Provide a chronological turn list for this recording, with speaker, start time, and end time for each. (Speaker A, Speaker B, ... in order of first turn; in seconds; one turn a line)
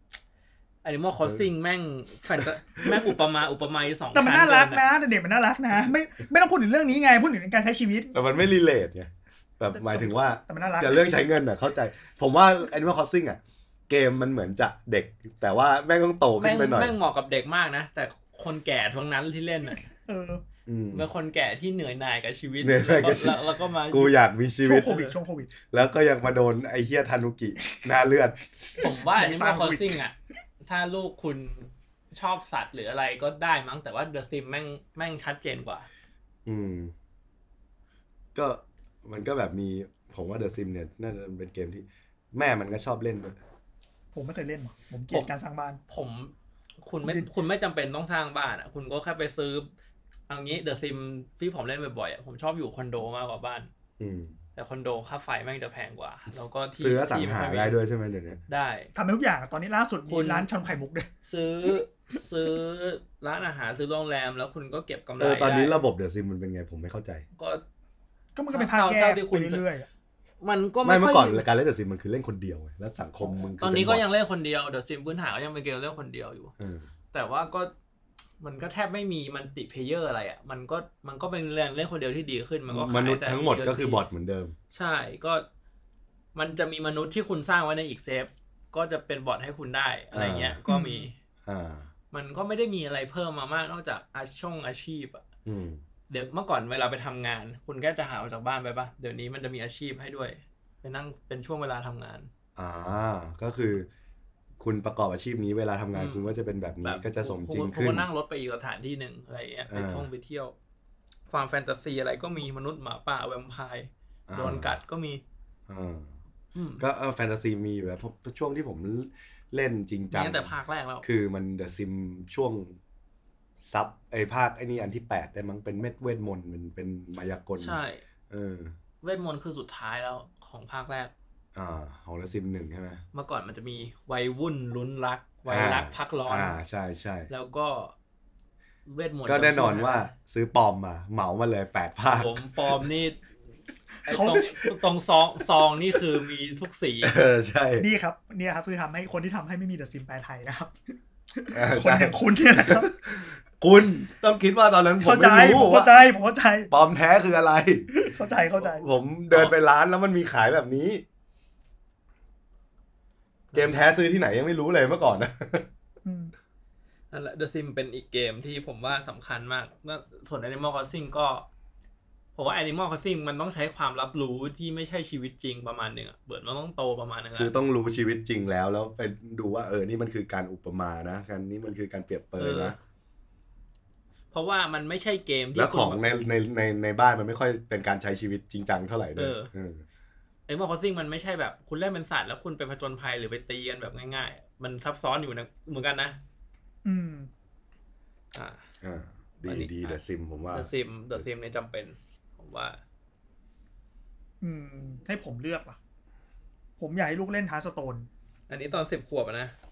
Speaker A: 0.8-4.8
Speaker B: 4.1-8.1
Speaker C: 8.1-16.9
Speaker B: 9.8-11.1
Speaker A: 16.4-19.8
Speaker B: 19.8-20.4
Speaker C: 20.7-21.1
Speaker A: 20.9-24.1
Speaker C: 22.6-25.0
Speaker B: 24.6-25.5
Speaker A: 24.8-25.1
Speaker C: 25.7-28.9
Speaker A: 28.8-35.9
Speaker B: 29.1-30.0
Speaker C: 36.5-36.9
Speaker C: 38.4-43.4
Speaker B: 44.1-45.8
Speaker A: 45.9-49.7
Speaker A: 50.3-53.7
Speaker C: 54.0-54.3
Speaker A: 54.6-57.8
Speaker C: 56.8-58.4
Speaker A: 58.5-58.9
Speaker B: 59.0-61.1
Speaker A: 60.1-60.5
Speaker A: 61.2-65.8
Speaker C: 65.2-67.2
Speaker A: 67.4-67.6
Speaker B: 68.3-69.9
Speaker A: 68.5-69.7
Speaker A: 70.4-71.4
Speaker C: 70.8-74.0
Speaker A: 73.6-76.5
Speaker C: 76.6-76.9
Speaker A: 77.1-77.7
Speaker A: 78.4-84.0
Speaker C: 82.7-84.5
Speaker A: 84.7-85.5
Speaker A: 86.3-91.2
Speaker C: 90.1-90.6
Speaker B: 90.7-91.1
Speaker C: 91.5-91.9
Speaker A: 92.1-95.2
Speaker C: 95.5-95.8
Speaker A: 96.1-102.3
Speaker C: 102.6-103.9
Speaker C: 104.6-108.1
Speaker A: 106.0-110.6
Speaker C: 109.7-110.1
Speaker A: 111.3-115.2
Speaker C: 114.3-114.8
Speaker C: 115.7-116.1
Speaker A: 116.5-116.8
Speaker C: 116.8-120.5
Speaker A: 120.1-121.1
Speaker C: 121.0-122.8
Speaker C: 123.6-127.8
Speaker A: 127.6-128.0
Speaker C: 128.3-128.8
Speaker A: 129.0-131.1
Speaker C: 131.6-133.0
Speaker A: 133.1-136.6
Speaker C: 135.5-137.3
Speaker A: 137.3-137.9
Speaker A: 138.9-140.1
Speaker C: 139.3-142.3
Speaker A: 142.1-143.2
Speaker B: 144.1-144.8
Speaker A: 144.1-147.2
Speaker C: 147.0-147.9
Speaker B: 147.8-152.9
Speaker C: 151.5-156.0
Speaker B: 155.0-156.7
Speaker C: 156.7-157.9
Speaker B: 157.9-158.9
Speaker C: 158.6-161.1
Speaker A: 163.5-163.8
Speaker C: 163.5-165.7
Speaker B: 166.0-166.3
Speaker A: 167.1-171.5
Speaker A: 172.4-177.5
Speaker C: 177.4-182.8
Speaker A: 182.4-182.8
Speaker A: 184.3-186.0
Speaker C: 185.6-189.8
Speaker A: 189.2-189.5
Speaker A: 190.5-196.2
Speaker B: 196.8-197.3
Speaker A: 198.3-198.7
Speaker C: 198.8-201.2
Speaker A: 199.5-200.0
Speaker A: 200.5-202.8
Speaker B: 204.4-205.8
Speaker B: 206.8-208.1
Speaker A: 208.5-209.6